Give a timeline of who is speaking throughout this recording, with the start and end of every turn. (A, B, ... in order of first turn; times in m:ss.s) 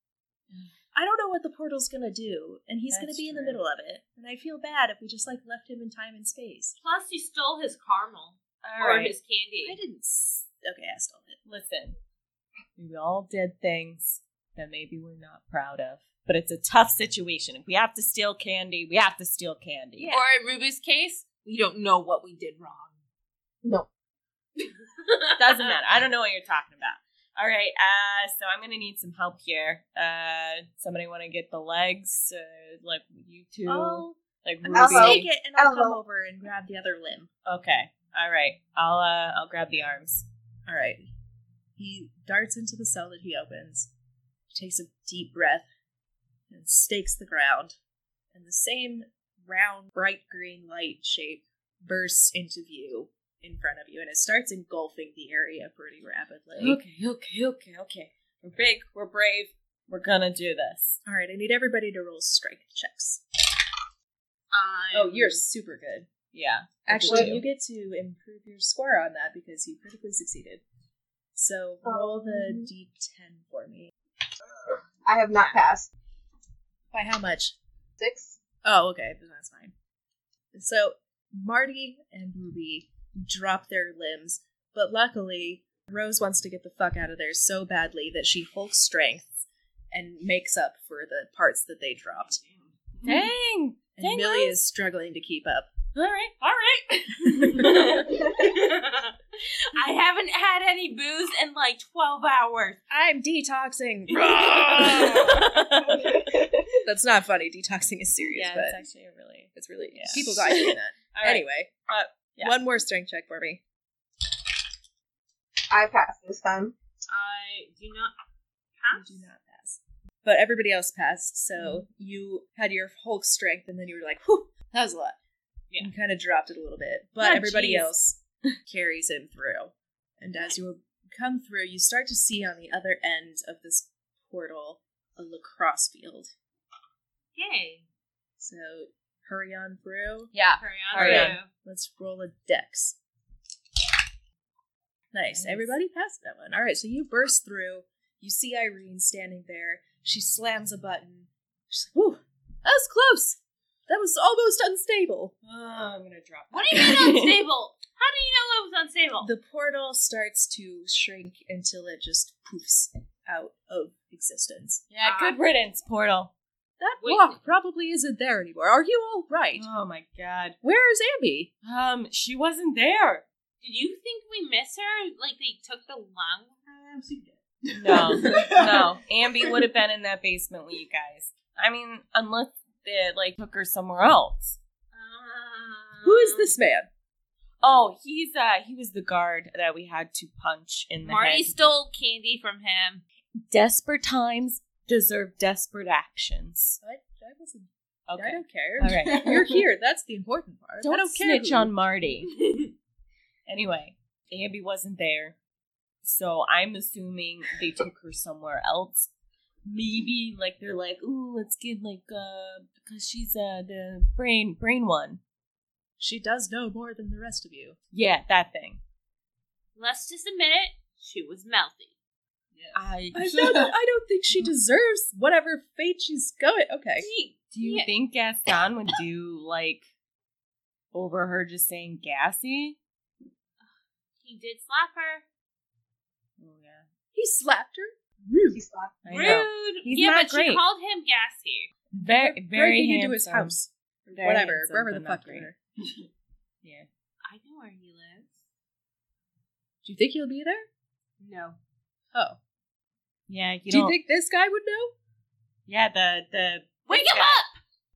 0:00.9-0:06.8 A
0:02.9-0:03.6 B
0:06.8-0:09.8 C
0:08.6-0:09.2 B
0:09.6-0:11.4 A
0:11.4-0:12.0 B
0:12.8-0:20.1 B
0:20.0-0:20.2 A
0:20.1-0:23.0 C
0:23.6-0:23.9 D
0:24.6-0:25.8 C
0:25.4-0:35.3 B
0:33.6-0:37.3 A
0:34.7-0:36.0 D
0:37.4-0:40.2 B
0:40.6-0:41.0 A
0:41.8-0:43.9 A
0:44.5-0:45.7 A
0:46.5-0:47.8 A
0:48.3-0:56.8 A
0:56.6-1:01.0 B
1:01.0-1:03.2 A
1:04.5-1:05.4 C
1:04.9-1:06.1 A
1:06.3-1:07.4 B
1:06.8-1:10.6 A
1:07.1-1:07.4 D
1:11.3-1:13.9 A
1:11.8-1:12.7 D
1:15.0-1:15.9 D
1:16.9-1:17.6 A
1:18.0-1:18.4 D
1:18.6-1:19.7 A
1:20.5-1:32.4 A
1:32.9-1:33.3 E
1:33.0-1:34.5 B
1:34.0-1:35.7 A
1:35.9-1:38.5 B
1:37.9-1:42.8 C
1:42.9-1:44.5 A
1:44.1-1:46.5 B
1:46.0-1:46.4 E
1:46.8-1:48.8 A
1:48.2-1:52.6 B
1:49.5-1:51.7 A
1:52.4-1:53.6 A
1:55.7-1:56.7 D
1:57.1-1:58.1 C
1:58.8-1:59.3 C
1:58.9-2:05.2 A
2:05.8-2:16.3 A
2:07.2-2:07.8 B
2:07.4-2:07.8 C
2:17.3-2:17.8 C
2:18.4-2:23.0 A
2:20.6-2:21.5 C
2:20.9-2:21.4 B
2:25.1-2:35.3 A
2:25.3-2:25.7 B
2:35.4-2:37.5 B
2:36.5-2:39.3 C
2:39.2-2:44.8 A
2:44.9-2:46.3 B
2:45.0-2:45.4 C
2:46.8-2:49.6 A
2:47.0-2:47.5 C
2:49.5-2:50.6 B
2:50.6-2:51.5 A
2:51.6-2:53.2 B
2:53.6-2:56.5 C
2:56.6-2:59.7 E
2:57.8-3:04.6 B
3:04.9-3:06.5 C
3:06.0-3:06.9 A
3:07.6-3:11.7 B
3:11.0-3:13.0 C
3:13.3-3:16.8 B
3:16.8-3:21.7 A
3:18.1-3:19.2 B
3:19.0-3:19.6 E
3:20.8-3:22.3 B
3:22.3-3:22.7 C
3:23.5-3:25.3 B
3:26.0-3:29.1 B
3:29.6-3:35.2 B
3:36.0-3:37.8 A
3:37.9-3:38.8 B
3:39.8-3:41.9 C
3:42.5-3:43.7 E
3:42.7-3:43.3 B
3:43.1-3:47.1 A
3:47.0-3:47.9 C
3:47.5-3:49.8 B
3:50.9-3:52.8 B
3:53.6-3:55.2 C
3:56.4-3:56.8 B
3:57.1-3:58.6 A
3:58.5-3:59.0 D
3:59.0-4:00.6 B
3:59.1-4:01.7 C
4:01.9-4:03.6 B
4:02.1-4:05.6 A
4:04.2-4:05.5 B
4:07.2-4:08.4 C
4:09.8-4:10.7 A
4:11.2-4:11.6 C
4:13.3-4:14.0 B
4:13.7-4:14.9 A
4:15.7-4:17.4 B
4:16.9-4:17.6 C